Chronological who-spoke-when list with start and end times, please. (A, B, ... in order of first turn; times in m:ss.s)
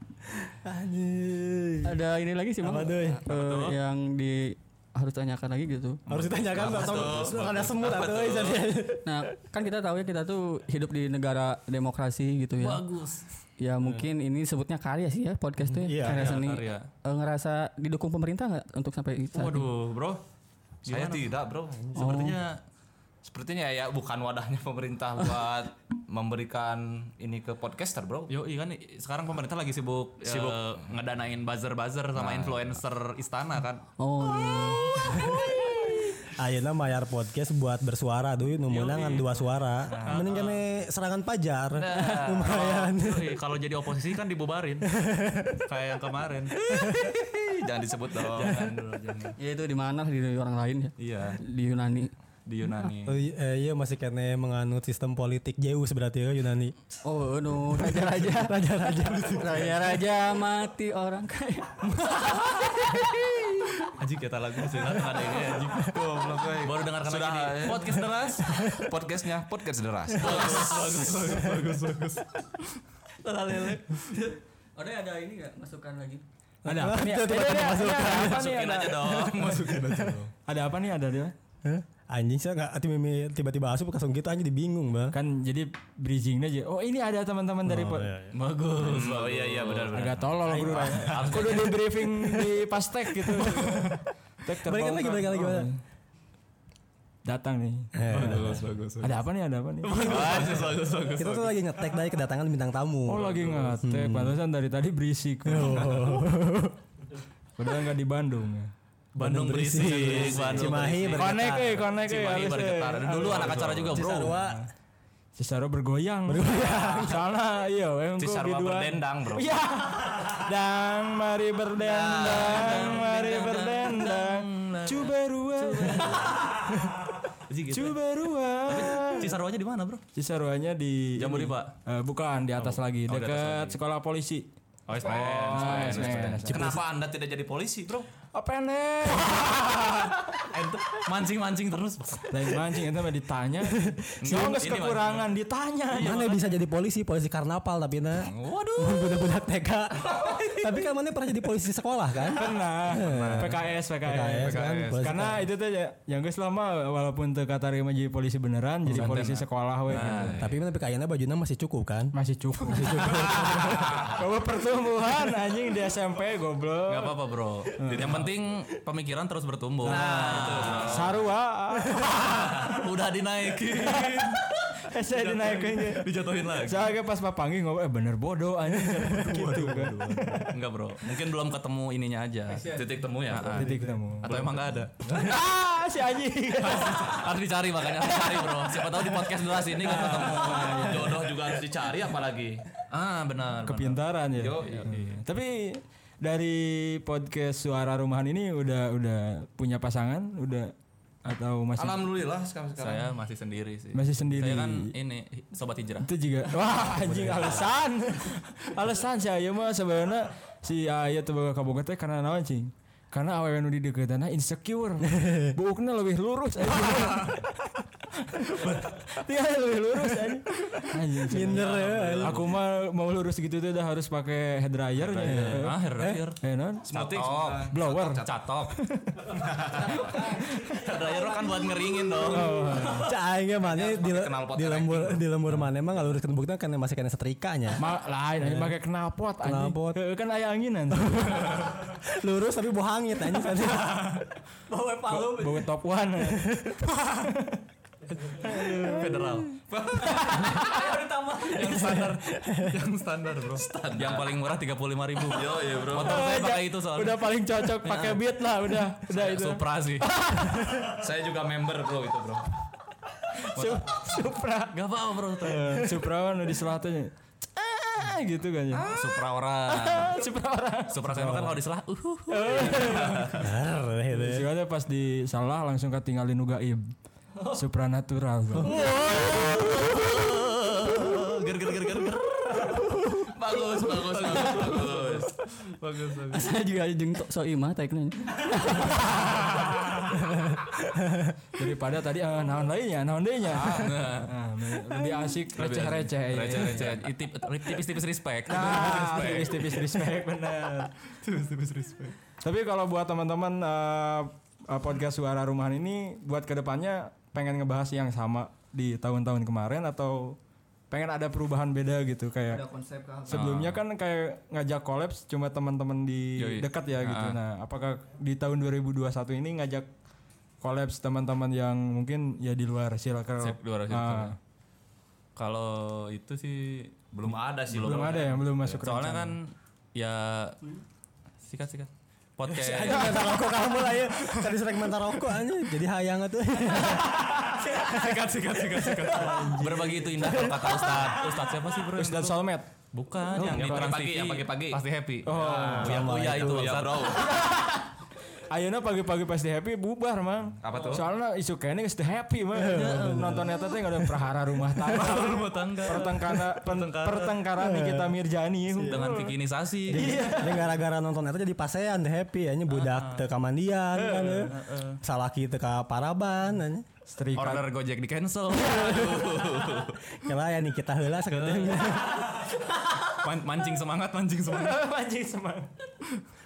0:00.4-0:01.9 A
0:01.8-0:06.0 B
0:02.6-0:03.2 A
0:03.2-0:03.8 C
0:06.1-0:09.2 A
0:06.1-0:07.5 C
0:06.5-0:08.7 D
0:09.0-0:12.8 B
0:12.6-0:13.2 C
0:13.6-0:19.7 B
0:15.6-0:16.4 A
0:16.0-0:16.9 C
0:19.3-0:20.2 C
0:20.8-0:21.3 C
0:20.9-0:21.9 D
0:21.9-0:22.6 C
0:21.9-0:22.4 B
0:23.2-0:28.3 D
0:28.3-0:33.8 C
0:30.2-0:30.8 D
0:32.1-0:32.8 D
0:34.0-0:36.0 B
0:34.6-0:35.7 A
0:36.2-0:43.4 A
0:38.7-0:40.6 C
0:41.8-0:44.9 C
0:42.0-0:42.8 D
0:44.8-0:45.6 A
0:45.7-0:46.6 C
0:46.6-0:48.6 D
0:46.7-0:47.1 A
0:48.3-0:49.4 C
0:49.4-0:52.1 B
0:51.0-0:51.4 C
0:51.0-0:51.3 D
0:52.4-0:53.2 C
0:53.0-0:56.8 A
0:57.0-1:03.7 B
0:57.7-0:59.8 A
1:02.0-1:02.9 C
1:03.8-1:08.6 C
1:04.8-1:11.2 D
1:08.4-1:08.9 A
1:10.1-1:13.8 C
1:11.3-1:11.7 A
1:13.4-1:16.2 B
1:16.6-1:19.0 E
1:16.6-1:20.2 A
1:16.8-1:18.0 B
1:18.0-1:20.2 D
1:19.1-1:20.3 C
1:20.4-1:21.3 E
1:21.6-1:25.2 A
1:25.1-1:28.1 E
1:27.6-1:28.3 A
1:28.3-1:30.1 C
1:28.8-1:31.6 D
1:29.9-1:35.8 E
1:30.4-1:31.2 A
1:30.8-1:31.8 C
1:34.6-1:35.7 A
1:37.2-1:40.6 E
1:37.9-1:38.6 A
1:38.1-1:39.2 C
1:39.8-1:41.5 C
1:40.0-1:41.1 D
1:41.2-1:44.4 A
1:43.1-1:46.3 E
1:45.4-1:46.8 A
1:47.6-1:48.7 E
1:49.2-1:54.3 C
1:49.2-1:51.8 A
1:50.0-1:51.2 D
1:51.2-1:54.6 E
1:52.0-1:54.0 D
1:53.9-1:54.6 A
1:55.4-2:06.8 E
1:56.2-1:57.2 A
1:58.2-1:59.6 D
2:01.8-2:03.0 D
2:02.2-2:06.8 C
2:07.5-2:08.0 C
2:07.7-2:09.4 E
2:08.7-2:10.0 C
2:10.1-2:14.5 E
2:11.2-2:11.7 C
2:12.6-2:13.8 C
2:14.9-2:16.7 C
2:15.0-2:18.1 D
2:15.0-2:16.8 E
2:18.3-2:20.1 E
2:19.2-2:22.6 C
2:22.3-2:26.5 E
2:24.2-2:25.2 C
2:25.9-2:35.4 A
2:28.2-2:29.3 C
2:32.3-2:40.4 E
2:33.0-2:33.7 C
2:34.3-2:35.0 C
2:38.9-2:40.5 C
2:40.4-2:42.1 A
2:42.1-2:47.2 E
2:42.7-2:44.0 A
2:43.4-2:43.7 C
2:46.9-2:51.2 C
2:47.8-2:48.3 E
2:49.8-2:52.5 E
2:49.8-2:51.2 D
2:51.9-2:56.9 C
2:53.8-3:00.6 E
2:58.9-2:59.4 A
2:59.2-3:05.2 C
3:01.0-3:01.3 D
3:02.6-3:05.4 D
3:03.5-3:04.4 E
3:05.0-3:07.3 E
3:06.6-3:10.9 C
3:09.8-3:11.4 E
3:09.9-3:12.6 D
3:12.9-3:14.0 C
3:13.6-3:22.1 E
3:14.3-3:15.0 D
3:14.6-3:15.2 C
3:21.8-3:23.1 D
3:22.8-3:26.1 C
3:23.9-3:24.9 E
3:26.0-3:45.8 E
3:27.1-3:27.6 C
3:35.2-3:35.5 A
3:37.0-3:37.4 C
3:38.6-3:39.0 C
3:41.2-3:42.4 A
3:41.4-3:42.5 C
3:41.6-3:42.4 D
3:45.0-3:48.8 C
3:45.1-3:45.6 D
3:46.4-3:46.9 E
3:46.8-3:48.3 D
3:47.6-3:49.2 E
3:49.3-3:52.7 D
3:49.8-3:52.9 C
3:50.5-3:50.8 E
3:52.2-3:53.1 E
3:53.0-3:57.8 A
3:53.6-3:55.2 D
3:57.8-4:01.7 E
3:58.4-3:58.7 A
3:59.4-4:00.0 A
4:00.9-4:04.2 A
4:03.6-4:04.2 C
4:04.7-4:05.6 B
4:04.9-4:07.6 E
4:06.3-4:06.8 A
4:08.4-4:09.3 E
4:08.8-4:09.6 C
4:09.7-4:11.0 D
4:10.4-4:18.2 C
4:10.9-4:11.5 B
4:11.6-4:12.8 A
4:13.5-4:14.4 D
4:15.2-4:16.3 D
4:16.0-4:20.9 E
4:18.8-4:20.1 C
4:20.8-4:22.5 D
4:23.3-4:24.8 E
4:23.5-4:25.9 C
4:25.4-4:28.9 E
4:28.9-4:30.2 C
4:29.7-4:31.6 E
4:30.9-4:33.5 C
4:32.3-4:33.5 E
4:33.4-4:34.5 A
4:34.1-4:39.2 E
4:38.7-4:39.8 B
4:38.7-4:42.8 C
4:43.2-4:45.3 D
4:43.5-4:46.5 C
4:46.3-4:49.5 B
4:48.9-4:50.2 C
4:51.0-4:51.3 A
4:51.6-4:57.1 E
4:53.5-4:54.3 C
4:55.5-4:59.9 C
4:58.5-5:00.9 E
5:01.2-5:02.2 C
5:02.4-5:10.4 E
5:10.9-5:12.6 E
5:12.5-5:13.5 B
5:13.3-5:19.9 E
5:13.3-5:13.8 C
5:16.4-5:17.4 C
5:20.6-5:24.4 E
5:23.4-5:24.4 C
5:25.4-5:27.0 C
5:27.1-5:28.8 D
5:27.7-5:29.4 E
5:28.8-5:30.6 C
5:31.4-5:33.4 C
5:32.5-5:39.1 A
5:37.0-5:42.4 C
5:39.1-5:40.8 E
5:40.8-5:41.2 D
5:41.9-5:42.7 E
5:42.9-5:47.2 C
5:43.3-5:44.0 E
5:43.4-5:47.4 D
5:45.2-5:46.1 E
5:45.8-5:46.8 A
5:47.2-5:47.9 E
5:48.5-5:59.4 E
5:50.6-5:51.1 D
5:52.5-5:53.6 A
5:52.7-5:53.6 C
5:54.8-5:57.4 C
5:57.6-5:58.2 A
5:58.7-5:59.1 A
5:58.8-6:00.3 C
5:59.9-6:00.7 E
5:59.9-6:06.8 A
6:02.7-6:03.2 C
6:04.0-6:05.0 C
6:07.1-6:07.7 E
6:07.4-6:10.0 C
6:09.1-6:09.9 D
6:10.1-6:12.3 A
6:11.3-6:12.0 C
6:13.0-6:14.9 C
6:14.5-6:16.2 E